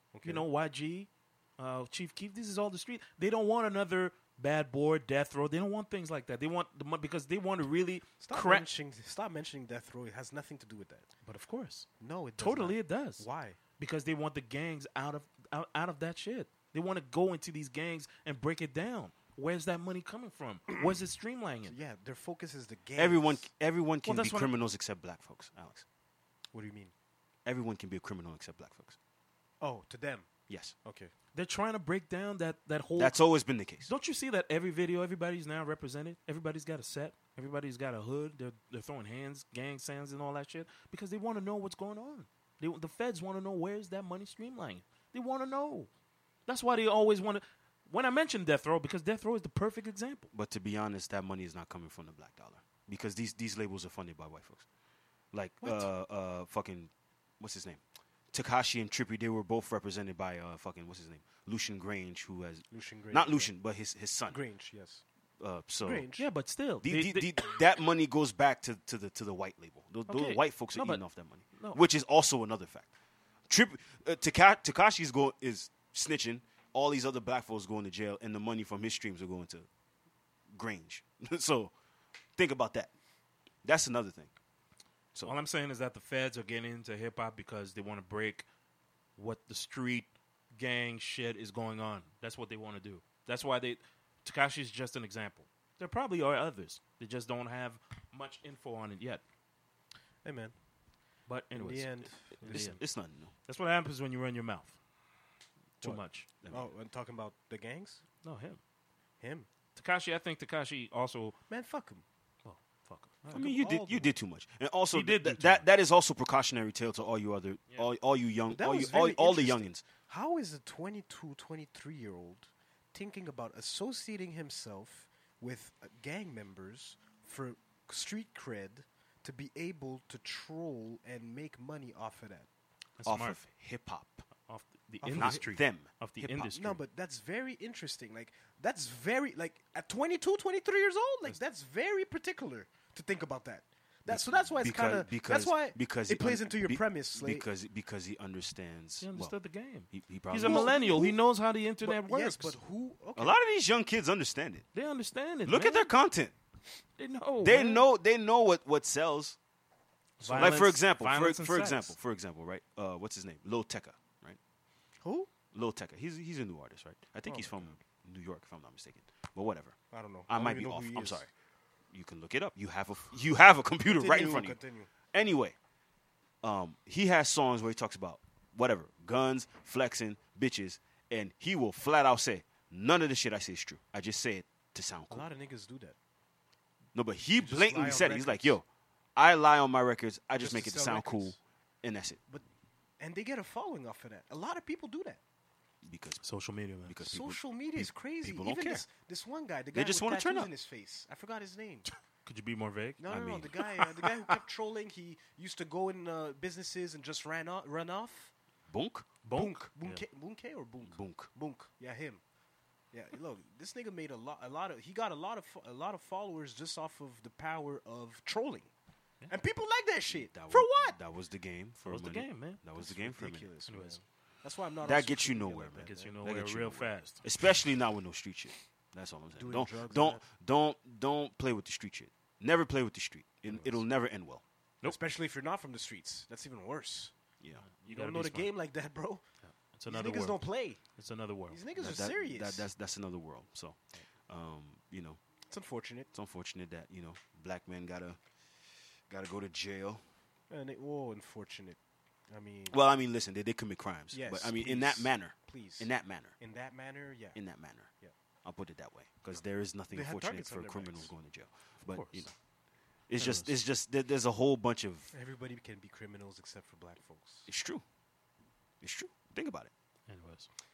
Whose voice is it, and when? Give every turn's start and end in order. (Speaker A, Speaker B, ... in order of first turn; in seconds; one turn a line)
Speaker A: 0.1-0.5
Speaker B: 0.2-8.7
Speaker A: 8.2-11.1
Speaker B: 11.2-13.3
Speaker A: 12.0-13.6
Speaker B: 13.8-21.7
Speaker A: 21.7-23.4
Speaker C: 22.9-25.9
Speaker B: 24.1-24.5
Speaker A: 26.5-26.9
Speaker C: 27.4-28.9
Speaker A: 29.6-30.3
Speaker C: 30.5-30.7
Speaker A: 30.8-31.1
Speaker B: 31.3-33.2
Speaker C: 33.0-33.9
Speaker B: 33.9-45.9
Speaker B: 46.5-50.3
Speaker C: 50.3-54.6
Speaker C: 55.3-64.4
Speaker A: 62.7-63.5
Speaker A: 64.3-65.0
Speaker C: 65.4-66.1
Speaker A: 65.8-66.3
Speaker B: 66.1-67.3
Speaker C: 66.8-72.9
Speaker B: 70.1-71.8
Speaker C: 73.5-79.7
Speaker C: 80.5-81.7
Speaker C: 82.4-82.9
Speaker C: 83.6-84.3
Speaker B: 85.2-88.4
Speaker B: 89.2-99.2
Speaker A: 100.2-100.5
Speaker B: 101.3-102.8
Speaker A: 101.5-102.7
Speaker C: 102.4-103.3
Speaker B: 103.4-104.8
Speaker B: 105.8-106.3
Speaker C: 105.8-106.7
Speaker A: 106.5-108.0
Speaker B: 108.2-108.6
Speaker A: 109.2-109.5
Speaker B: 109.8-111.3
Speaker A: 111.5-112.0
Speaker B: 112.4-113.5
Speaker C: 113.3-119.8
Speaker A: 113.3-114.2
Speaker B: 114.9-115.6
Speaker A: 118.5-132.5
Speaker B: 133.0-133.4
Speaker C: 133.1-134.2
Speaker B: 134.5-136.8
Speaker A: 135.0-135.4
Speaker C: 135.1-136.0
Speaker A: 136.2-147.4
Speaker C: 144.1-149.3
Speaker B: 149.0-152.6
Speaker C: 149.9-150.8
Speaker A: 150.4-151.2
Speaker A: 151.8-153.4
Speaker C: 153.2-154.7
Speaker B: 154.7-155.9
Speaker C: 155.4-156.3
Speaker B: 157.0-157.8
Speaker C: 157.4-159.4
Speaker B: 160.2-161.9
Speaker C: 160.3-164.4
Speaker A: 165.0-165.3
Speaker C: 165.5-171.3
Speaker A: 167.3-167.7
Speaker A: 169.9-171.2
Speaker C: 171.9-174.6
Speaker A: 173.8-174.9
Speaker C: 175.1-175.6
Speaker C: 176.4-185.3
Speaker A: 185.1-185.9
Speaker C: 186.9-188.6
Speaker A: 187.4-188.6
Speaker C: 189.2-192.2
Speaker A: 190.4-191.4
Speaker A: 193.0-195.2
Speaker C: 195.8-196.2
Speaker B: 196.2-196.9
Speaker C: 196.8-198.8
Speaker A: 197.0-201.9
Speaker C: 199.7-200.5
Speaker B: 202.3-203.0
Speaker A: 203.0-208.3
Speaker C: 203.1-203.6
Speaker C: 208.7-209.1
Speaker B: 209.2-210.0
Speaker A: 209.3-212.2
Speaker C: 210.8-211.3
Speaker A: 212.9-218.7
Speaker A: 219.3-221.0
Speaker C: 220.1-223.5
Speaker B: 221.9-222.6
Speaker A: 222.7-226.1
Speaker B: 223.7-224.0
Speaker C: 224.8-234.4
Speaker B: 225.8-227.2
Speaker A: 229.4-230.2
Speaker A: 234.8-237.1
Speaker C: 237.4-237.7
Speaker B: 237.7-238.5
Speaker A: 237.9-239.2
Speaker B: 239.4-240.4
Speaker A: 239.9-240.8
Speaker B: 240.9-241.6
Speaker A: 241.5-242.7
Speaker C: 241.8-243.8
Speaker C: 244.3-245.2
Speaker A: 245.5-246.1
Speaker C: 246.1-248.2
Speaker C: 249.1-250.0
Speaker A: 250.5-251.8
Speaker A: 252.3-252.8
Speaker C: 252.7-256.4
Speaker A: 254.1-257.4
Speaker C: 257.4-257.9
Speaker C: 258.4-262.3
Speaker A: 259.9-261.1
Speaker B: 261.8-262.2
Speaker C: 263.1-265.1
Speaker B: 263.2-263.5
Speaker A: 265.1-267.5
Speaker C: 267.5-267.8
Speaker C: 268.8-269.7
Speaker B: 270.1-270.5